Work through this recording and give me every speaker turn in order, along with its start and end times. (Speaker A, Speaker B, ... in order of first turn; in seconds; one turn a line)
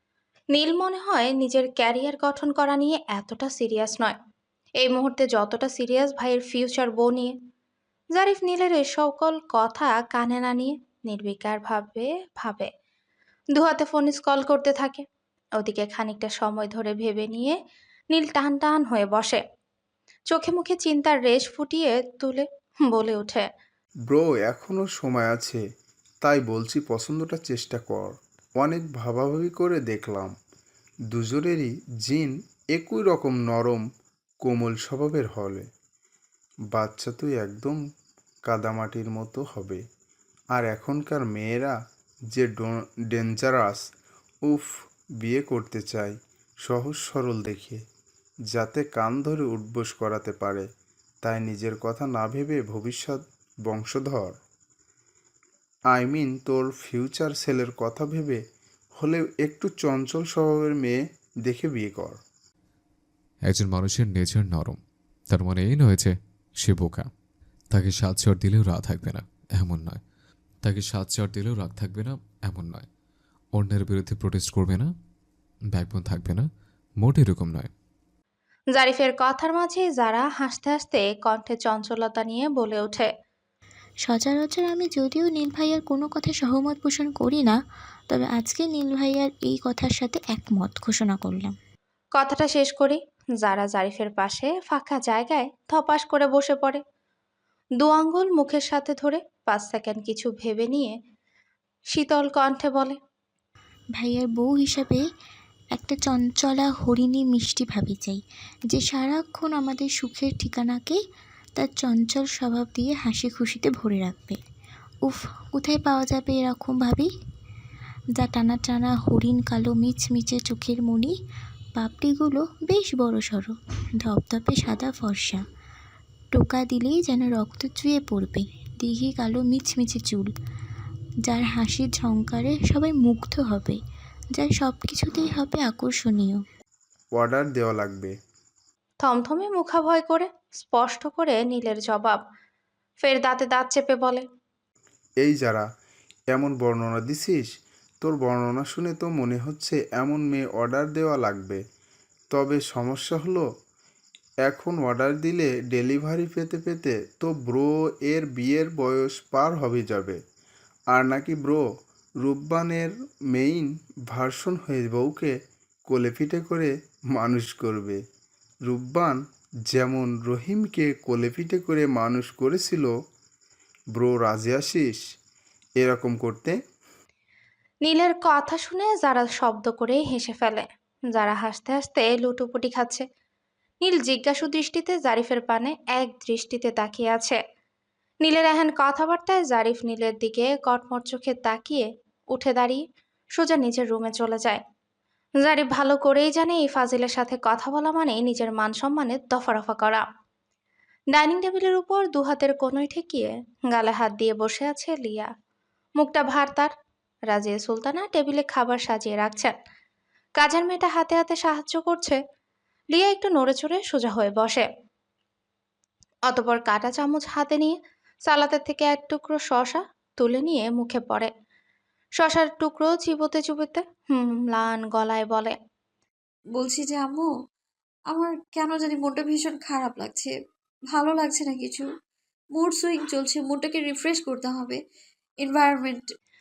Speaker A: 0.6-4.2
Speaker A: 4.8-7.3
Speaker A: 8.2-12.7
Speaker A: 13.6-15.0
Speaker A: 15.6-17.6
Speaker A: 18.1-19.4
Speaker A: 20.3-23.4
Speaker B: 24.1-25.6
Speaker B: 26.2-30.3
Speaker B: 31.1-33.8
Speaker B: 34.4-35.6
Speaker B: 36.7-37.8
Speaker B: 38.5-39.8
Speaker B: 40.5-41.8
Speaker B: 42.3-43.8
Speaker B: 45.2-47.8
Speaker B: 48.5-50.7
Speaker B: 51.2-54.3
Speaker B: 55.9-58.4
Speaker B: 59.0-62.2
Speaker C: 63.5-64.8
Speaker C: 65.3-67.1
Speaker C: 67.7-70.0
Speaker C: 70.6-72.9
Speaker C: 73.5-74.9
Speaker C: 75.7-76.5
Speaker C: 77.0-77.7
Speaker A: 78.8-83.1
Speaker D: 84.0-87.6
Speaker D: 88.1-91.5
Speaker A: 92.2-96.8
Speaker A: 97.8-100.9
Speaker A: 101.9-103.0
Speaker D: 104.0-105.0
Speaker D: 105.7-111.0
Speaker D: 111.6-114.4
Speaker D: 115.0-117.1
Speaker D: 118.2-121.2
Speaker D: 121.8-125.4
Speaker D: 126.3-130.3
Speaker D: 131.2-133.8
Speaker D: 134.3-136.4
Speaker B: 137.2-138.1
Speaker A: 139.0-142.2
Speaker A: 143.0-144.2
Speaker B: 145.2-145.7
Speaker B: 146.3-147.5
Speaker B: 148.0-151.6
Speaker B: 152.3-153.5
Speaker B: 154.4-160.2
Speaker B: 160.9-161.6
Speaker B: 162.2-165.3
Speaker B: 165.9-168.0
Speaker B: 168.7-169.2
Speaker B: 169.7-172.9
Speaker B: 173.9-175.0
Speaker B: 175.8-176.6
Speaker A: 177.8-183.0
Speaker A: 183.8-187.4
Speaker A: 188.2-192.8
Speaker A: 193.4-194.6
Speaker A: 195.4-200.0
Speaker A: 201.1-205.3
Speaker A: 206.0-206.7
Speaker A: 207.3-209.5
Speaker A: 210.4-212.2
Speaker A: 212.9-214.6
Speaker A: 216.3-217.7
Speaker A: 218.3-221.3
Speaker A: 222.2-225.6
Speaker E: 226.5-227.3
Speaker E: 228.1-230.4
Speaker E: 230.9-231.9
Speaker E: 232.5-234.8
Speaker E: 235.4-236.2